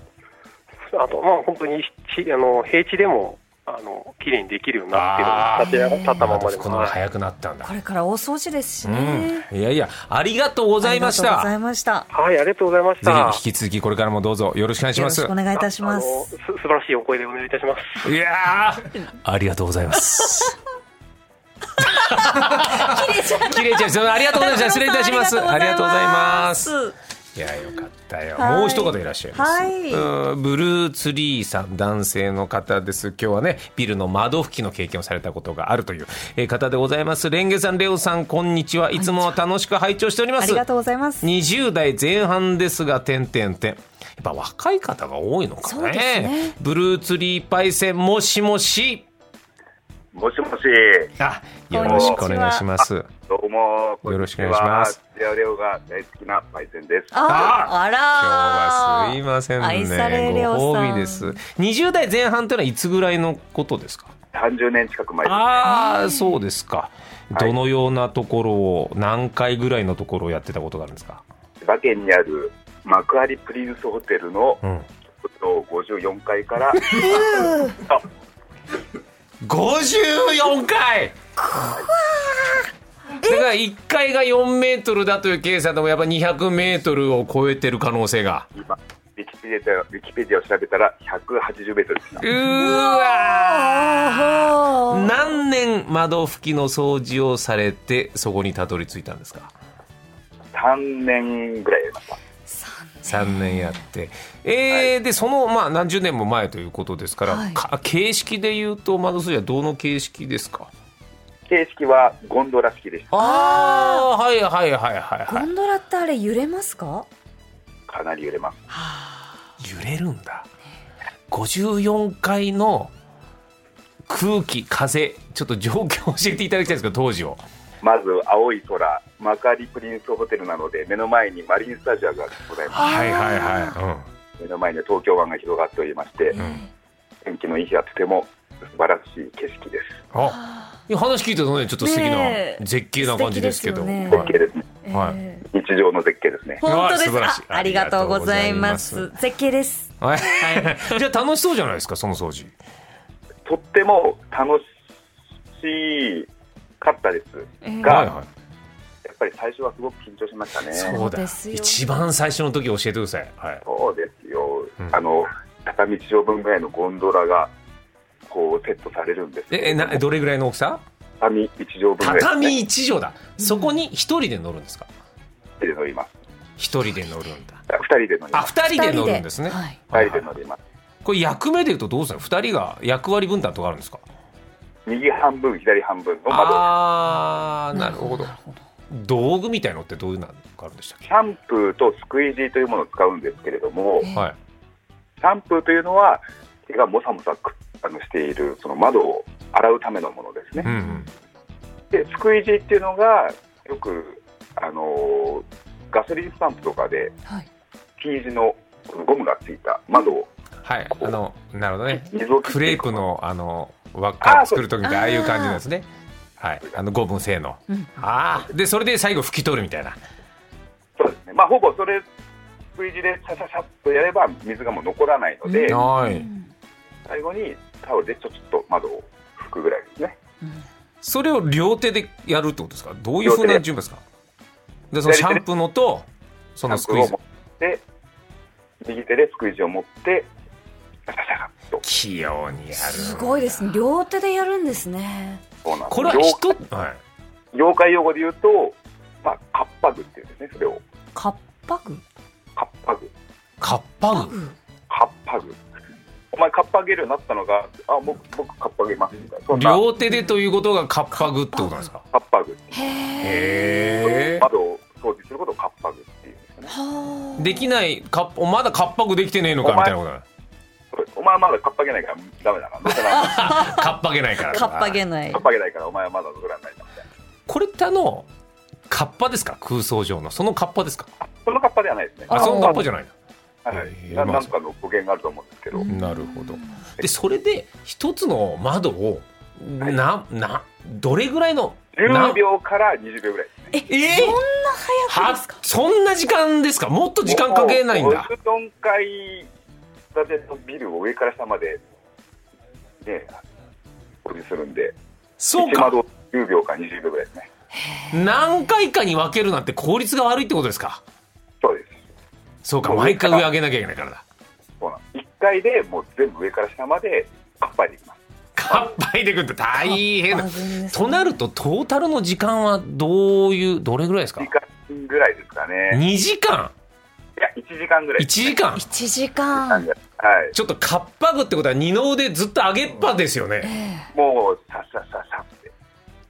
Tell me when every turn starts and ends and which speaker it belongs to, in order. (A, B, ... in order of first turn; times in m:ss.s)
0:00.9-0:07.0 A
0:04.9-0:07.7 B
0:05.6-0:06.1 C
0:07.6-0:09.5 C
0:08.8-0:11.5 B
0:10.8-0:12.1 C
0:12.1-0:13.4 A
0:13.0-0:15.4 B
0:14.9-0:16.2 C
0:15.8-0:18.1 A
0:18.0-0:20.6 B
0:20.1-0:20.5 C
0:21.8-0:26.8 B
0:21.8-0:26.9 C
0:27.4-0:40.6 B
0:28.4-0:30.1 C
0:39.0-0:39.3 C
0:40.4-0:41.3 C
0:41.2-0:49.1 B
0:45.6-0:46.6 C
0:50.1-0:51.1 D
0:51.2-0:53.1 B
0:51.7-0:52.6 C
0:51.8-0:52.2 D
0:53.3-0:57.4 D
0:54.0-0:55.0 B
0:57.1-1:01.4 C
0:57.3-1:04.1 B
1:04.3-1:05.7 D
1:05.2-1:11.2 B
1:05.6-1:06.4 C
1:11.6-1:14.6 D
1:14.6-1:14.9 B
1:15.2-1:18.0 D
1:16.8-1:17.8 C
1:19.4-1:21.2 B
1:21.4-1:23.4 C
1:21.6-1:21.9 D
1:23.2-1:28.5 B
1:28.6-1:32.3 D
1:32.2-1:39.5 B
1:32.4-1:35.3 C
1:40.5-1:42.2 D
1:42.5-1:43.8 C
1:43.1-1:50.7 B
1:47.3-1:47.6 C
1:51.5-1:53.2 D
1:53.1-1:55.5 B
1:53.1-1:54.1 C
1:55.3-1:57.1 C
1:57.9-1:58.6 D
1:59.6-2:00.5 B
2:01.3-2:02.9 B
2:04.1-2:07.4 B
2:07.8-2:13.3 D
2:12.7-2:14.1 B
2:12.7-2:13.8 C
2:14.4-2:16.4 D
2:16.3-2:16.7 C
2:16.4-2:16.6 B
2:17.2-2:20.0 D
2:20.1-2:24.4 B
2:20.2-2:20.8 C
2:21.8-2:25.4 C
2:24.1-2:24.6 D
2:24.9-2:25.2 B
2:25.5-2:26.6 D
2:26.6-2:30.8 C
2:26.6-2:29.1 B
2:30.0-2:32.5 B
2:33.4-2:34.6 D
2:35.6-2:36.3 D
2:36.8-2:38.1 D
2:37.6-2:38.1 C
2:37.8-2:38.3 B
2:39.0-2:41.0 D
2:40.7-2:41.9 C
2:40.8-2:43.6 B
2:43.6-2:47.5 D
2:48.3-2:50.0 D
2:49.5-2:50.8 B
2:51.2-2:52.6 D
2:52.0-2:54.9 B
2:55.6-2:56.1 D
2:56.6-2:57.6 B
2:57.7-2:58.5 D
2:58.3-3:00.3 B
2:58.7-2:59.8 C
2:59.9-3:00.6 D
3:01.0-3:04.0 B
3:04.9-3:06.7 D
3:06.3-3:08.3 B
3:07.7-3:08.6 C
3:08.9-3:11.1 B
3:11.1-3:14.1 D
3:15.2-3:20.7 D
3:20.6-3:21.1 B
3:20.6-3:21.0 C
3:21.9-3:27.1 D
3:28.0-3:30.3 D
3:30.6-3:35.9 B
3:31.9-3:33.0 D
3:34.2-3:34.6 D
3:34.8-3:35.6 C
3:36.4-3:40.0 B
3:41.0-3:42.1 D
3:42.8-3:45.8 D
3:45.5-3:46.5 C
3:45.6-3:46.3 B
3:47.1-3:50.2 D
3:51.0-3:54.0 B
3:53.2-3:53.6 D
3:54.9-3:57.2 B
3:55.1-3:55.4 D
3:56.7-3:57.8 D
3:58.8-4:00.3 D
4:01.1-4:01.8 D
4:01.8-4:03.8 B
4:02.8-4:05.4 C
4:05.6-4:06.6 D
4:05.9-4:07.0 B
4:07.5-4:10.8 D
4:11.2-4:12.0 C
4:12.6-4:13.1 D
4:13.6-4:14.4 B
4:14.1-4:14.6 C
4:14.9-4:15.6 D
4:16.3-4:19.8 D
4:19.5-4:22.0 B
4:20.0-4:20.4 C
4:21.2-4:21.9 C
4:22.1-4:22.9 D
4:22.7-4:24.4 C
4:23.2-4:24.5 B
4:24.0-4:26.8 D
4:26.7-4:27.7 C
4:27.4-4:30.2 B
4:29.6-4:29.9 D
4:30.9-4:33.7 D
4:33.0-4:33.9 C
4:33.1-4:35.0 B
4:34.5-4:35.4 C
4:35.3-4:37.0 D
4:37.5-4:38.3 B
4:38.9-4:41.1 B
4:41.2-4:42.8 D
4:42.3-4:42.9 C
4:42.3-4:43.1 B
4:43.6-4:45.9 D
4:43.7-4:44.5 B
4:45.7-4:46.7 C
4:45.9-4:52.4 B
4:52.0-4:53.7 D
4:53.7-4:55.6 C
4:53.9-4:54.4 B
4:55.1-4:58.3 B
4:57.2-4:59.5 D
5:00.1-5:01.8 D
5:03.0-5:03.4 D
5:04.2-5:05.0 D
5:05.4-5:06.0 B
5:05.6-5:07.5 D
5:08.1-5:11.0 B
5:11.6-5:12.0 D
5:12.6-5:14.2 B
5:12.8-5:13.5 D
5:14.8-5:18.9 D
5:18.6-5:24.5 B
5:20.0-5:21.4 C
5:24.4-5:26.0 D
5:25.9-5:26.7 B
5:27.4-5:28.6 D
5:28.2-5:28.9 B
5:28.8-5:29.9 C
5:29.5-5:30.5 D
5:30.5-5:33.7 B
5:33.6-5:34.1 C
5:34.1-5:35.7 D